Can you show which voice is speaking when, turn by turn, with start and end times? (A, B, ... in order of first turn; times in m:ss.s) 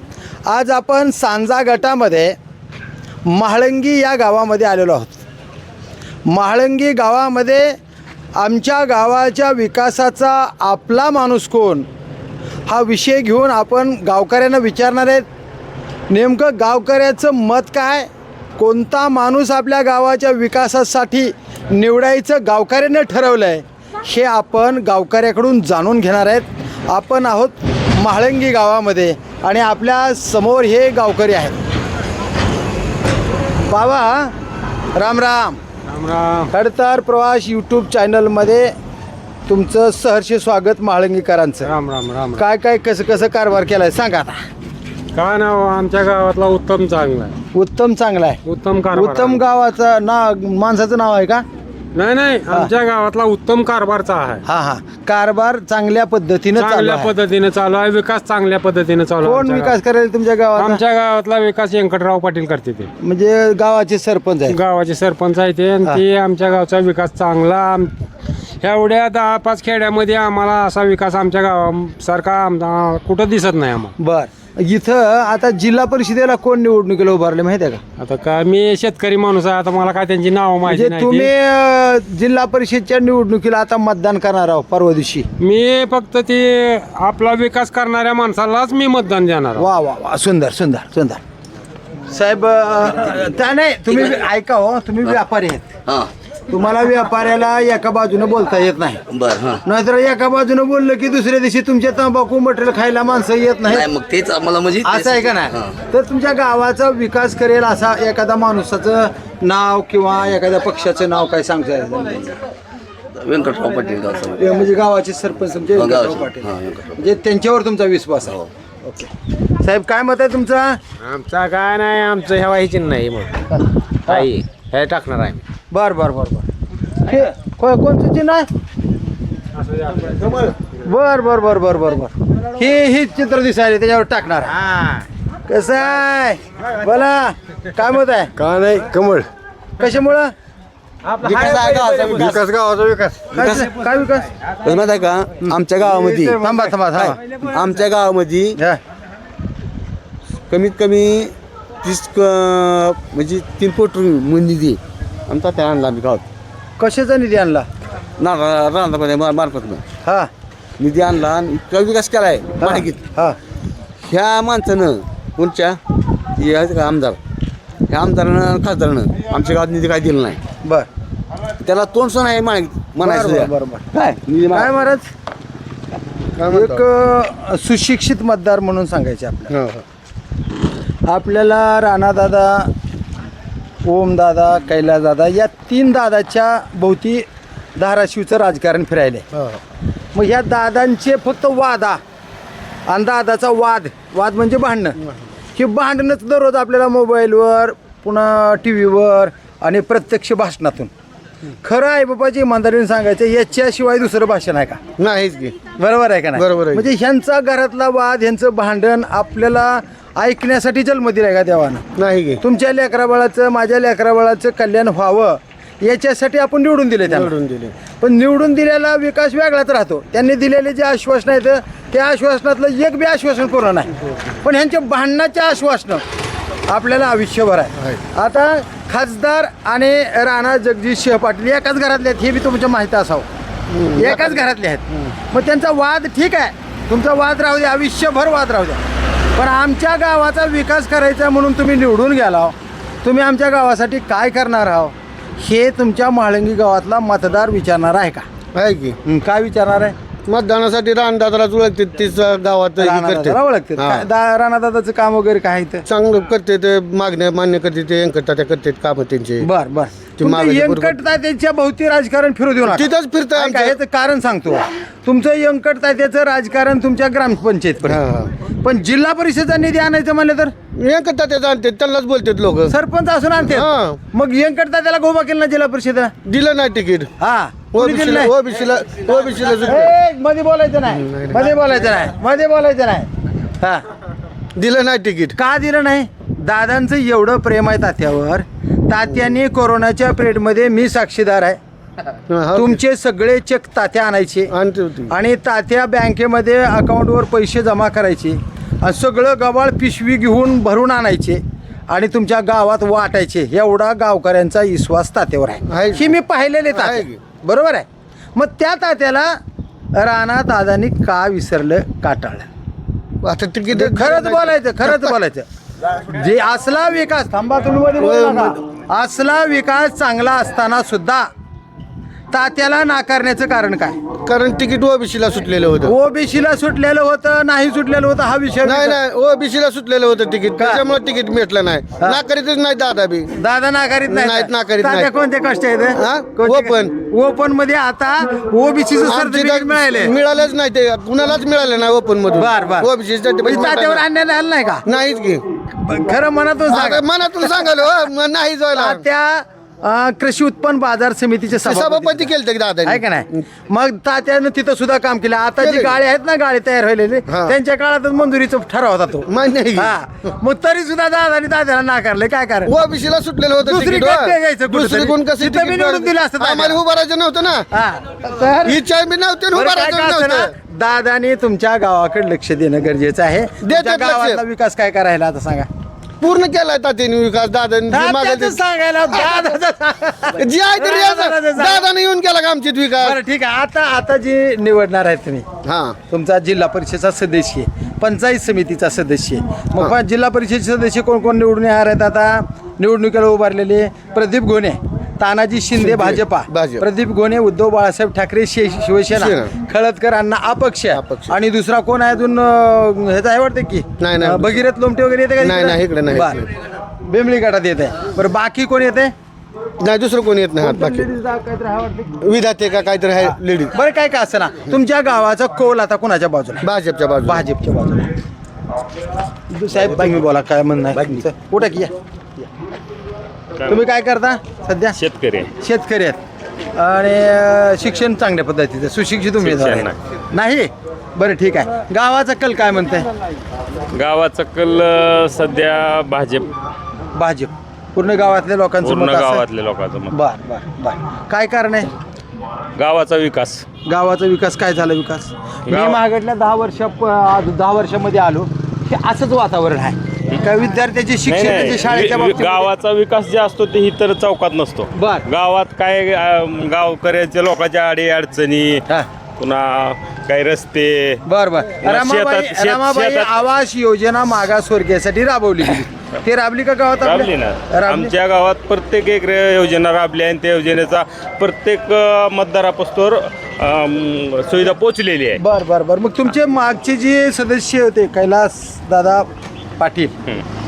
0:00.4-0:02.4 A
0:03.2-0:05.2 A
0:06.2-0:07.8 A
0:08.4-0:11.8 A
0:12.7-0:15.2 A
0:16.1-0:31.6 A
0:33.7-0:34.3 A
0:34.9-0:35.6 A
0:35.9-0:36.5 B
0:36.5-0:38.7 A
0:39.5-0:41.7 A
0:41.6-0:42.4 B
0:42.4-0:44.4 A
0:45.1-0:47.3 B
0:47.5-0:48.4 A
0:48.4-0:49.4 B
0:48.9-0:51.4 A
0:51.9-0:54.4 B
0:54.4-0:57.1 A
0:56.6-0:59.8 B
0:59.2-1:00.8 A
1:00.6-1:02.9 B
1:03.0-1:04.6 A
1:04.5-1:07.9 B
1:08.6-1:13.9 B
1:14.0-1:17.8 A
1:18.0-1:21.3 B
1:20.6-1:25.3 A
1:25.4-1:29.6 B
1:29.6-1:31.2 A
1:32.1-1:35.8 A
1:36.5-1:39.0 A
1:39.1-1:39.6 C
1:39.6-1:43.9 A
1:43.7-1:45.7 C
1:44.8-1:52.3 A
1:53.2-1:54.4 C
1:54.4-1:59.1 A
1:55.8-1:56.9 C
1:59.6-2:00.8 A
2:01.0-2:03.5 D
2:04.1-2:05.4 D
2:05.7-2:06.5 A
2:07.0-2:08.5 A
2:10.8-2:14.5 A
2:15.5-2:18.3 A
2:18.4-2:19.2 E
2:19.8-2:20.3 A
2:21.1-2:22.3 D
2:21.2-2:23.7 E
2:21.3-2:22.4 F
2:23.3-2:24.3 A
2:24.6-2:28.6 E
2:25.9-2:26.2 D
2:26.4-2:27.2 A
2:30.5-2:36.2 E
2:36.8-2:37.6 A
2:38.2-2:39.8 E
2:40.0-2:40.3 A
2:40.8-2:43.0 E
2:42.6-2:43.4 A
2:44.0-2:45.8 E
2:46.4-2:47.2 E
2:47.9-2:50.4 E
2:51.6-2:54.7 E
2:53.0-2:53.8 A
2:54.5-2:55.1 A
2:56.4-2:56.8 F
2:56.5-2:59.5 A
2:59.5-2:59.8 F
3:01.1-3:02.7 A
3:03.8-3:09.2 A
3:09.3-3:09.6 F
3:10.1-3:12.0 A
3:12.9-3:15.0 A
3:15.6-3:20.9 A
3:21.6-3:24.8 A
3:25.0-3:25.6 F
3:25.8-3:31.8 A
3:26.3-3:26.8 F
3:32.0-3:32.4 F
3:32.4-3:37.3 A
3:37.0-3:37.7 F
3:38.0-3:46.0 A
3:46.7-3:53.2 A
3:53.7-3:54.4 F
3:53.9-3:58.8 A
3:59.3-4:08.2 A
4:08.5-4:09.0 F
4:09.0-4:09.9 A
4:10.3-4:14.0 F
4:12.8-4:15.8 A
4:15.9-4:19.4 F
4:19.4-4:28.0 A
4:20.2-4:21.0 F
4:22.7-4:23.7 F
4:27.8-4:28.3 F
4:28.6-4:30.5 A
4:30.7-4:32.7 F
4:32.7-4:36.1 A
4:33.4-4:34.0 F
4:36.2-4:37.1 F
4:37.2-4:38.3 A
4:37.7-4:39.9 F
4:39.6-4:43.1 A
4:40.9-4:41.8 F
4:44.6-4:45.3 F
4:45.4-4:51.6 A
4:52.3-4:52.8 F
4:52.5-4:54.5 A
4:54.5-4:55.1 F
4:55.1-5:09.4 A
5:05.7-5:06.1 F
5:06.7-5:07.2 F
5:09.9-5:12.4 A
5:13.2-5:15.1 F
5:13.7-5:15.4 A
5:16.0-5:21.3 A
5:18.0-5:18.6 F
5:22.3-5:24.0 A
5:24.2-5:25.9 F
5:25.8-5:29.0 A
5:28.6-5:33.3 F
5:30.6-5:30.8 A
5:33.4-5:40.1 A
5:34.1-5:35.1 F
5:35.9-5:36.9 F
5:39.0-5:44.0 F
5:42.4-5:42.9 A
5:43.4-5:44.8 A
5:44.9-5:45.4 F
5:45.8-5:47.7 A
5:46.7-5:49.0 F
5:48.7-5:52.3 A
5:51.6-5:53.4 F
5:52.8-6:02.7 A
5:55.6-5:55.9 F
5:57.3-5:57.6 F
5:59.3-6:00.0 F
6:02.6-6:07.7 F
6:03.6-6:06.8 A
6:07.7-6:08.8 A
6:08.6-6:10.5 F
6:09.5-6:15.7 A
6:13.6-6:14.4 F
6:16.2-6:18.6 F
6:17.9-6:21.9 A
6:20.4-6:23.2 F
6:23.0-6:25.4 A
6:25.6-6:26.0 F
6:26.1-6:49.1 A
6:35.8-6:36.8 F
6:39.1-6:39.5 F
6:40.9-6:41.3 F
6:44.0-6:44.5 F
6:45.4-6:46.4 F
6:49.8-6:51.1 F
6:50.6-6:52.3 A
6:52.2-6:53.7 F
6:53.2-6:56.6 A
6:56.6-6:57.5 F
6:57.2-6:58.1 A
6:59.5-7:02.4 A
7:03.7-7:05.0 A
7:05.0-7:05.5 G
7:05.6-7:06.2 A
7:06.7-7:13.1 A
7:09.4-7:10.0 G
7:13.9-7:16.5 G
7:17.1-7:19.4 A
7:18.8-7:20.1 G
7:20.1-7:21.9 A
7:22.8-7:23.6 G
7:23.8-7:32.7 A
7:25.7-7:26.0 G
7:31.3-7:38.8 G
7:34.9-7:35.2 A
7:39.4-7:41.2 G
7:41.2-7:48.1 A
7:41.8-7:43.3 G
7:47.0-7:55.4 G
7:55.4-7:59.3 A
7:59.8-8:00.1 A